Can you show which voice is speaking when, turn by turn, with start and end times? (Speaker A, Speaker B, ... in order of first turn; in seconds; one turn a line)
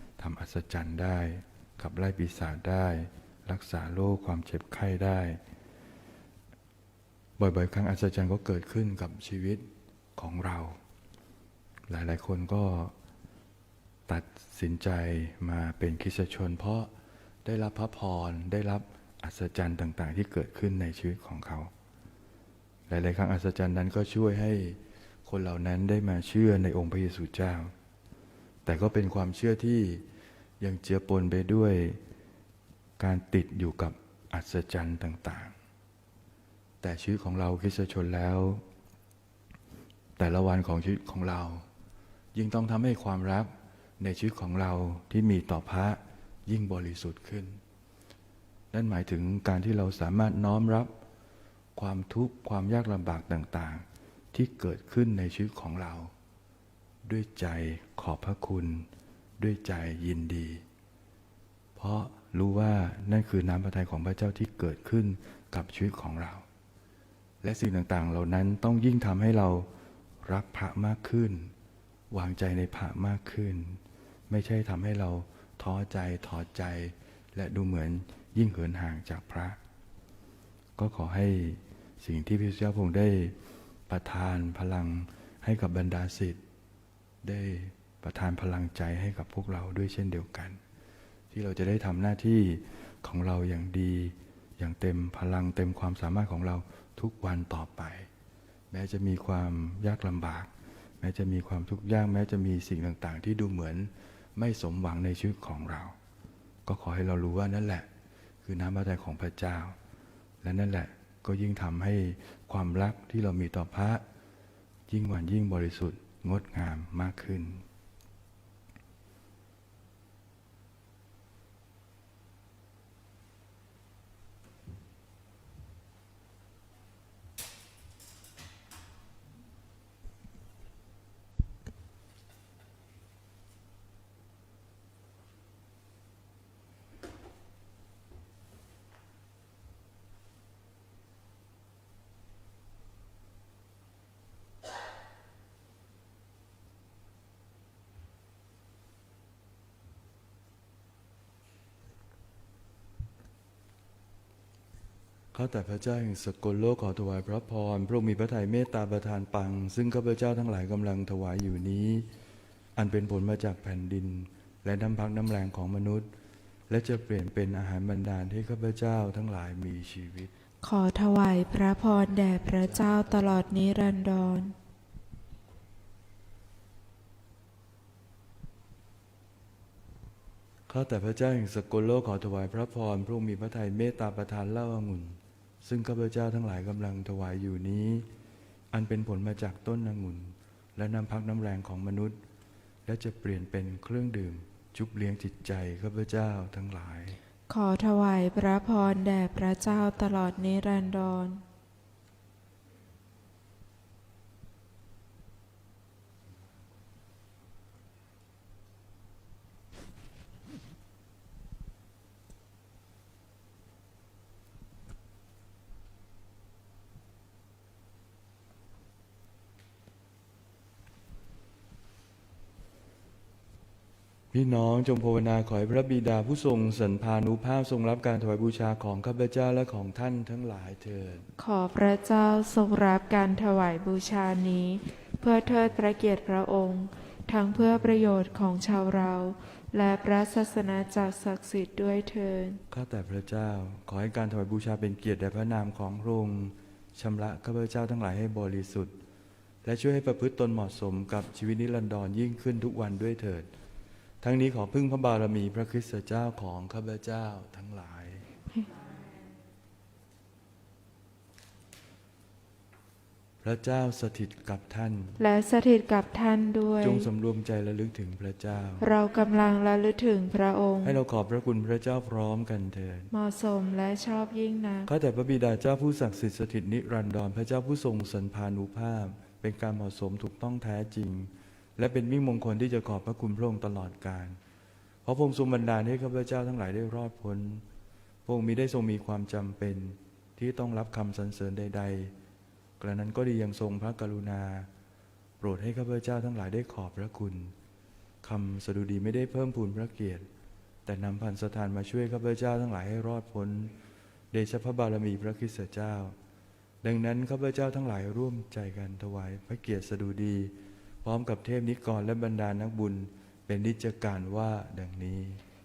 Speaker A: 0.2-5.4
Speaker A: 7.4-10.8
Speaker A: 11.9-12.9
Speaker A: 14.1-16.9
Speaker A: 17.4-21.7
Speaker A: 22.9-27.7
Speaker A: 28.7-30.0
Speaker A: 30.6-32.0
Speaker A: 33.0-35.5
Speaker A: 36.8-38.6
Speaker A: 40.2-41.7
Speaker A: 42.3-47.6
Speaker A: 48.7-50.9
Speaker A: 51.8-56.1
Speaker A: 57.0-58.9
Speaker A: 59.4-60.6
Speaker A: 61.8-66.5
Speaker A: 67.4-69.7
Speaker A: 70.2-71.5
Speaker A: 72.1-79.6
Speaker A: 80.8-83.4
Speaker A: 83.9-86.4
Speaker A: 87.2-90.6
Speaker A: 91.3-98.1
Speaker A: 98.7-106.0
Speaker A: 106.7-107.9
Speaker A: 108.4-109.8
Speaker A: 110.4-114.0
Speaker A: 114.9-117.6
Speaker A: 155.3-162.1
Speaker A: 162.8-166.1
Speaker A: 166.7-170.3
Speaker B: 170.6-174.5
Speaker A: 172.7-173.6
Speaker A: 180.7-188.1
Speaker A: 188.7-192.2
Speaker A: 192.9-197.2
Speaker B: 197.5-201.4
Speaker A: 224.3-231.3
Speaker B: 231.4-242.6
Speaker A: 242.7-248.9
Speaker A: 249.6-253.5
Speaker A: 254.2-258.2
Speaker A: 263.4-265.2
Speaker B: 265.2-267.1
Speaker A: 266.8-268.9
Speaker B: 268.8-271.0
Speaker A: 270.8-273.1
Speaker B: 273.1-274.9
Speaker A: 274.9-284.4
Speaker A: 285.1-287.6
Speaker A: 288.3-292.1
Speaker A: 292.8-294.7
Speaker A: 295.4-297.5
Speaker A: 298.2-300.3
Speaker A: 300.9-303.8
Speaker A: 304.3-306.2
Speaker A: 306.8-315.4